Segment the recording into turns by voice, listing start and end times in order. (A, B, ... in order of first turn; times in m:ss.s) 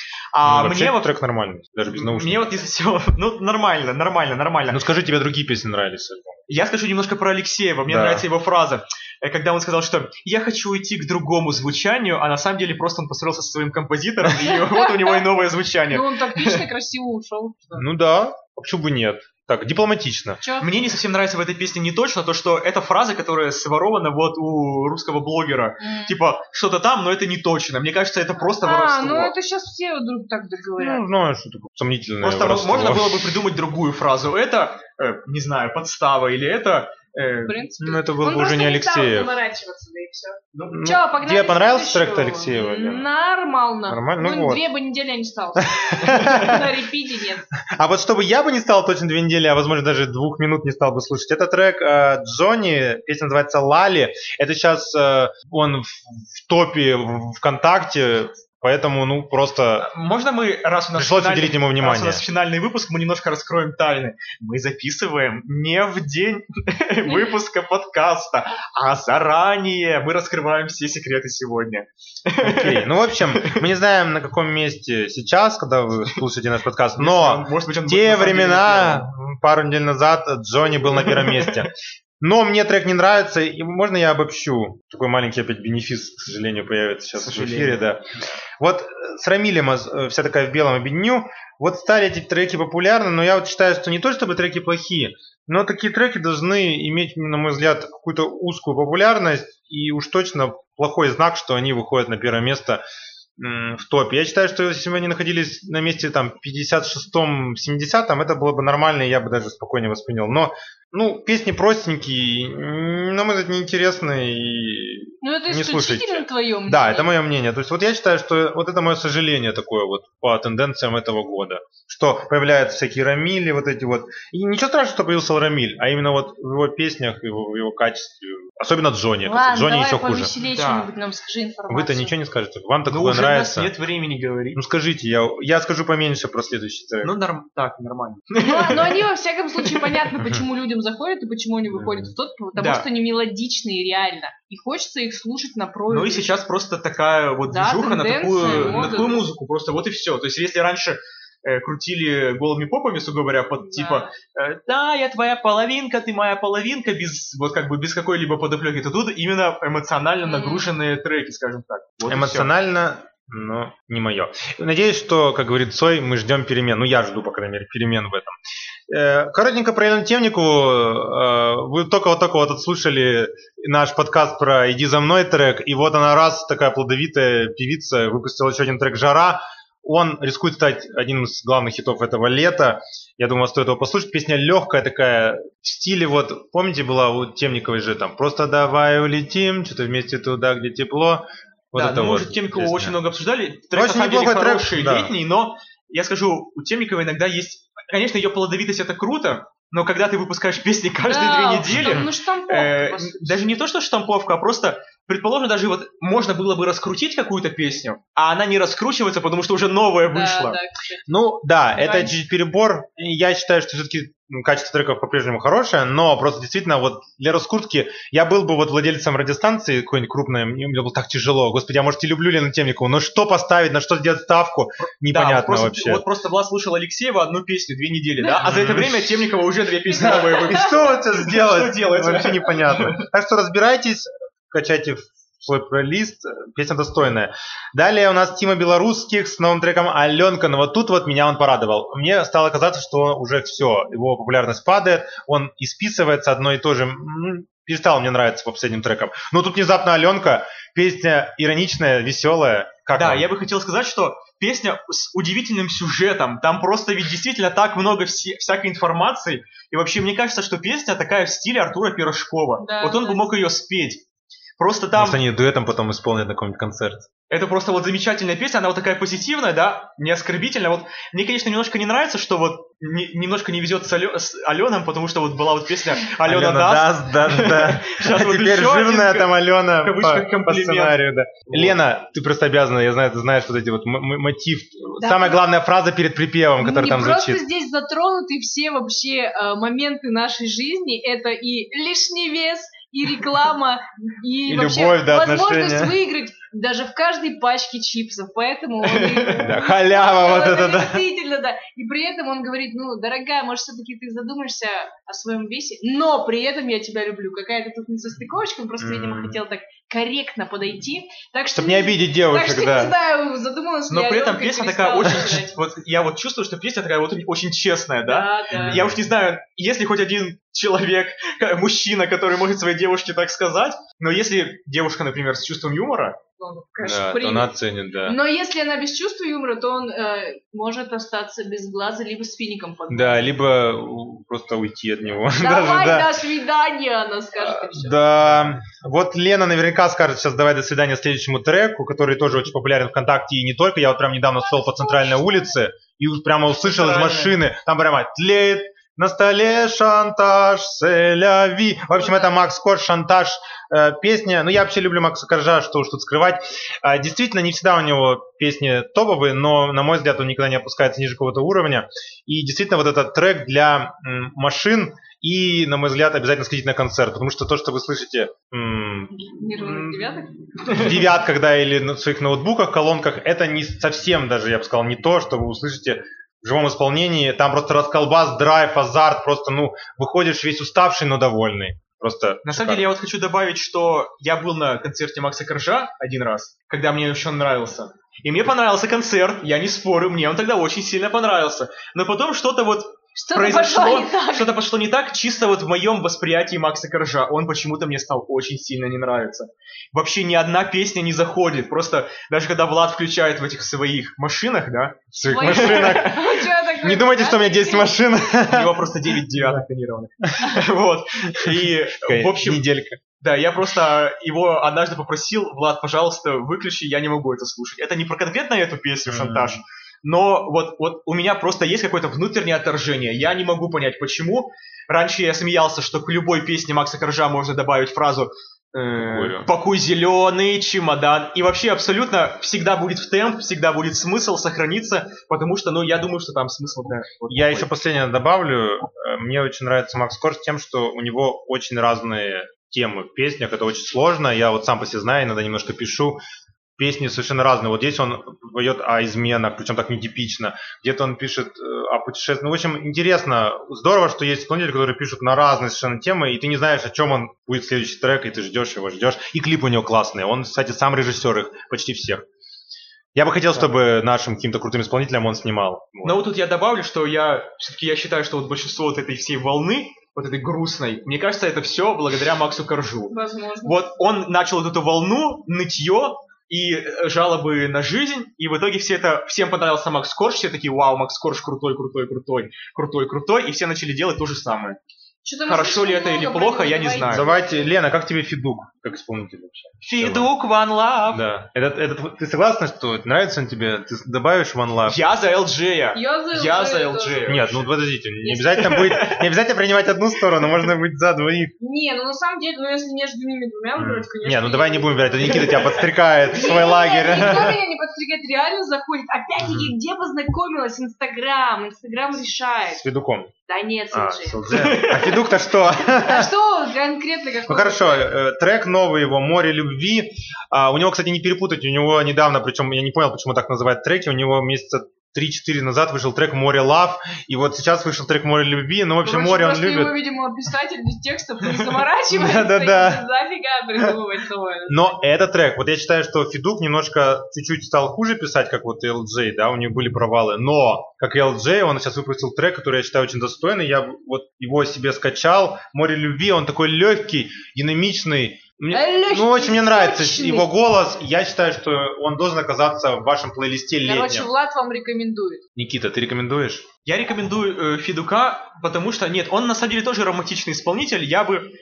0:00.3-0:01.1 A
0:00.4-0:02.5 B
0:01.9-0:04.8 A
0:04.7-0:06.4 B
0:06.5-0:16.6 A
0:07.9-0:08.2 B
0:14.4-0:15.2 C
0:15.9-0:17.9 C
0:17.8-0:20.4 B
0:20.4-0:20.7 C
0:20.6-0:29.3 A
0:25.8-0:26.2 C
0:28.6-0:31.0 C
0:30.8-0:33.3 B
0:32.2-0:37.7 A
0:37.5-0:47.5 C
0:37.8-0:39.3 B
0:40.7-0:43.0 B
0:43.9-0:44.6 B
0:45.6-0:46.7 B
0:47.7-0:59.9 B
0:59.8-1:13.6 A
1:01.0-1:02.2 B
1:07.0-1:07.3 C
1:12.4-1:28.0 B
1:17.0-1:19.1 A
1:20.9-1:21.7 A
1:27.2-1:27.9 A
1:28.6-1:42.8 B
1:43.4-2:10.3 B
1:55.2-1:57.1 C
2:09.2-2:12.1 C
2:10.5-2:10.9 A
2:11.7-2:13.7 B
2:12.9-2:14.6 A
2:14.5-2:17.1 B
2:17.0-2:19.0 A
2:18.4-2:26.3 C
2:19.6-2:20.0 A
2:20.2-2:20.4 B
2:21.7-2:22.1 B
2:22.5-2:22.8 A
2:25.9-2:42.5 A
2:27.5-2:29.2 C
2:28.4-2:28.9 B
2:33.6-2:34.1 C
2:40.2-2:40.7 C
2:42.1-2:48.4 B
2:48.9-3:13.0 B
3:11.7-3:30.6 A
3:13.7-3:15.1 B
3:21.1-3:23.5 C
3:21.7-3:22.1 B
3:30.1-3:31.0 C
3:31.1-3:46.0 B
3:31.7-3:32.2 C
3:45.0-3:53.0 A
3:48.4-3:49.1 B
3:49.9-3:50.8 C
3:50.0-4:13.3 B
4:12.9-4:24.0 A
4:22.6-4:23.2 C
4:24.6-4:25.2 A
4:24.9-4:27.0 B
4:27.3-4:41.8 A
4:36.2-4:47.4 B
4:45.0-4:45.4 C
4:46.6-5:15.6 C
4:54.5-4:56.0 B
4:58.8-4:59.5 A
4:59.4-5:01.0 B
5:08.8-5:09.4 B
5:11.5-5:12.9 B
5:13.9-5:26.2 A
5:18.1-5:18.8 C
5:18.6-5:19.0 B
5:26.4-5:27.5 C
5:26.8-5:28.2 B
5:28.0-5:33.3 C
5:32.9-5:36.2 B
5:35.4-5:38.0 C
5:37.4-6:10.1 B
5:44.5-5:45.4 C
5:46.6-5:47.4 A
6:09.4-6:10.9 C
6:10.6-6:10.9 A
6:10.7-6:22.9 B
6:22.4-6:46.1 A
6:33.2-6:34.5 C
6:45.1-6:49.6 B
6:45.2-6:48.2 C
6:48.4-7:17.7 A
6:50.2-6:50.6 B
6:51.3-6:53.0 B
6:59.1-6:59.6 B
7:09.0-7:09.5 B
7:17.3-7:26.2 B
7:26.8-7:42.2 B
7:43.1-7:46.2 B
7:46.0-8:04.8 A
7:53.1-7:53.8 C
8:05.2-8:07.5 C
8:05.4-8:07.3 A
8:07.1-8:10.3 B
8:09.8-8:11.2 A
8:11.1-8:15.0 B
8:14.8-8:17.6 A
8:15.9-8:17.4 C
8:17.2-8:21.5 B
8:18.2-8:18.5 C
8:18.6-8:19.2 A
8:21.6-8:32.8 C
8:23.8-8:27.6 B
8:29.4-8:29.7 B
8:32.7-8:33.3 B
8:33.5-8:34.5 C
8:33.9-8:36.3 B
8:34.5-8:35.2 A
8:35.8-8:38.1 C
8:37.4-8:50.0 B
8:49.0-8:54.9 C
8:52.1-8:53.0 B
8:54.7-9:14.3 B
9:08.7-9:10.5 C
9:13.8-9:15.4 C
9:15.6-9:16.6 B
9:16.8-9:21.5 A